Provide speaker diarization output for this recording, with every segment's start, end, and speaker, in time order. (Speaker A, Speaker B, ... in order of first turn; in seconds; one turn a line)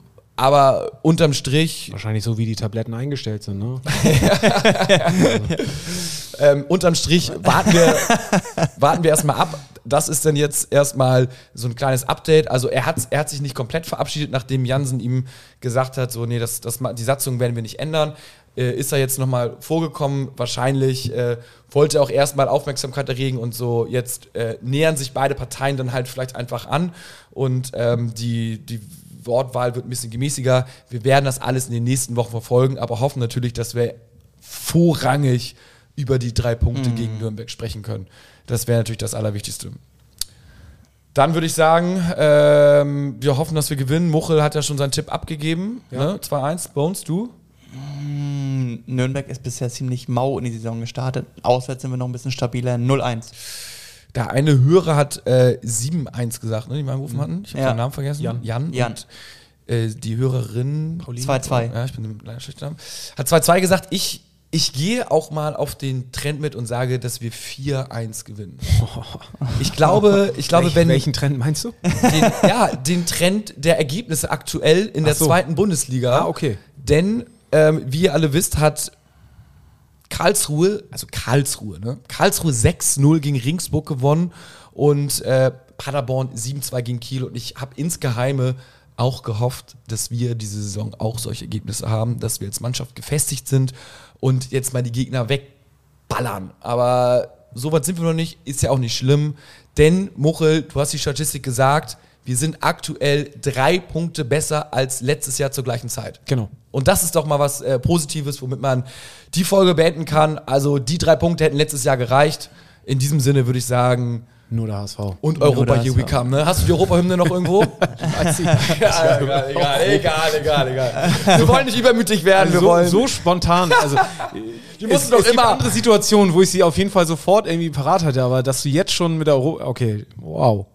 Speaker A: 0.4-1.9
Speaker B: 1.9-4.0
Speaker A: 3.9-39.8
Speaker C: 4.5-5.6
Speaker B: 5.1-5.5
Speaker C: 7.4-8.7
Speaker C: 36.7-37.3
Speaker A: 41.1-47.3
Speaker C: 47.7-53.3
Speaker A: 54.1-59.0
Speaker C: 57.5-57.8
Speaker B: 58.2-58.4
Speaker C: 58.7-59.0
Speaker A: 59.7-68.8
Speaker B: 61.0-61.3
Speaker C: 61.2-61.7
Speaker B: 68.7-69.9
Speaker A: 69.6-71.1
Speaker B: 70.5-71.8
Speaker C: 71.9-72.4
Speaker A: 72.0-78.9
Speaker B: 75.0-75.4
Speaker B: 76.1-76.6
Speaker A: 80.1-95.5
Speaker A: 96.1-106.2
Speaker B: 106.3-106.5
Speaker A: 106.7-114.3
Speaker B: 114.5-115.8
Speaker A: 115.2-123.2
Speaker C: 115.4-116.2
Speaker B: 117.4-121.4
Speaker C: 121.0-121.5
Speaker B: 122.3-130.7
Speaker A: 123.8-125.8